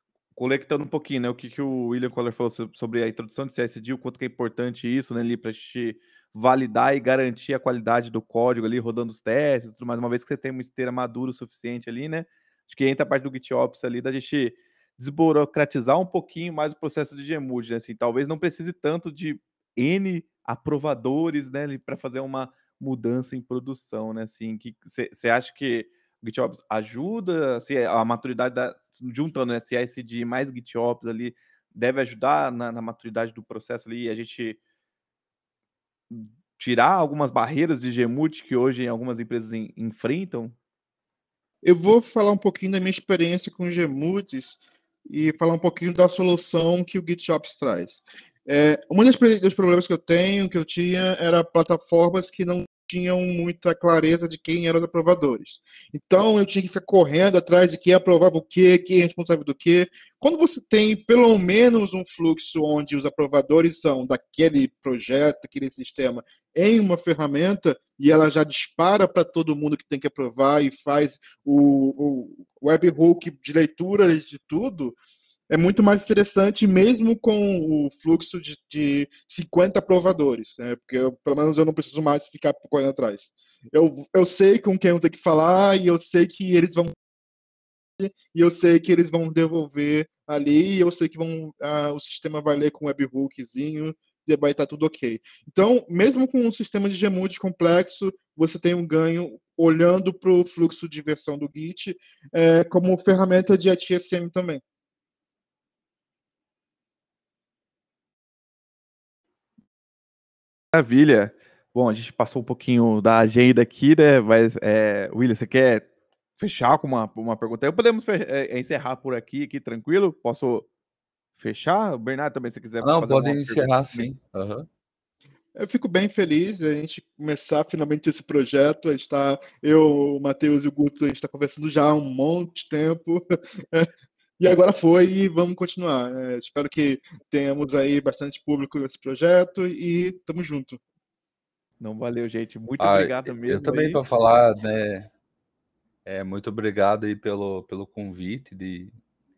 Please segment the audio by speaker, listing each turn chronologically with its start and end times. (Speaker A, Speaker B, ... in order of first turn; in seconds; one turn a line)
Speaker A: 0.3-34.6
Speaker A: 36.1-40.5
Speaker B: 41.6-44.6
Speaker B: 45.1-75.0
Speaker B: 75.5-86.9
Speaker B: 88.0-104.6
Speaker A: 110.7-120.7
Speaker A: 121.4-124.1
Speaker C: 122.8-124.7
Speaker B: 125.5-133.9
Speaker B: 134.4-140.8
Speaker A: 141.8-144.0
Speaker C: 142.8-145.1
Speaker C: 146.1-148.9